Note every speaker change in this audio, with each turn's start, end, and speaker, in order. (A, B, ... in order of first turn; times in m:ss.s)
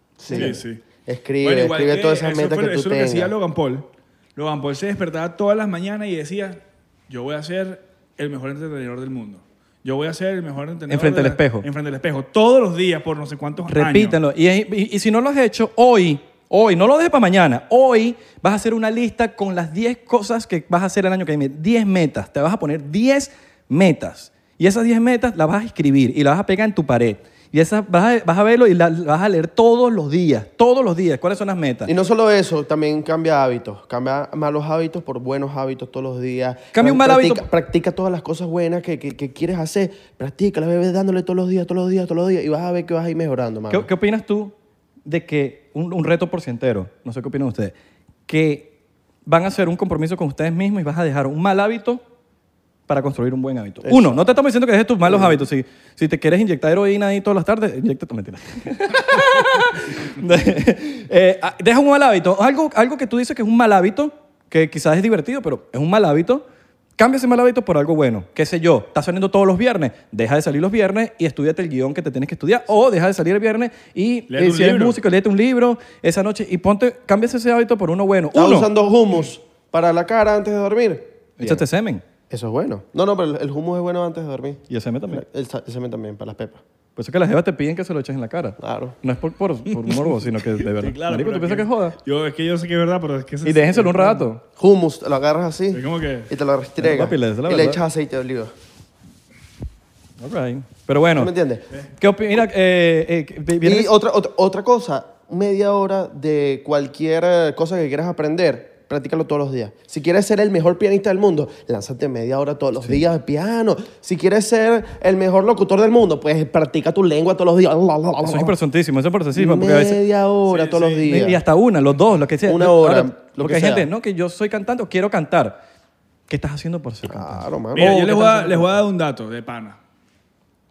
0:00.2-0:03.3 A
0:00.3-0:00.8 B
0:01.4-0:14.2 B
0:10.9-0:11.7 C
0:13.7-0:31.9 C
0:31.9-0:43.9 A
0:36.7-0:37.4 C
0:43.7-0:44.5 C
0:45.0-0:47.7 C
0:48.3-0:48.7 C
0:49.3-0:52.0 C
0:52.9-1:06.4 C
0:53.8-0:54.2 A
1:07.0-1:18.7 C
1:14.3-1:15.0 B
1:18.3-1:21.6 A
1:21.4-1:22.0 C
1:22.3-1:26.6 A
1:24.7-1:25.2 C
1:27.0-1:32.0 C
1:28.6-1:29.0 A
1:30.6-1:34.3 B
1:33.4-1:34.4 C
1:34.6-1:38.5 A
1:35.7-1:36.3 B
1:36.8-1:37.8 C
1:40.2-1:41.3 C
1:41.2-1:41.6 A
1:42.0-1:43.9 C
1:43.6-1:58.6 A
1:58.2-2:00.0 C
1:59.3-2:01.4 A
2:00.5-2:01.0 B
2:01.0-2:05.6 C
2:02.5-2:03.9 A
2:06.3-2:08.5 C
2:07.1-2:08.7 A
2:07.8-2:09.8 B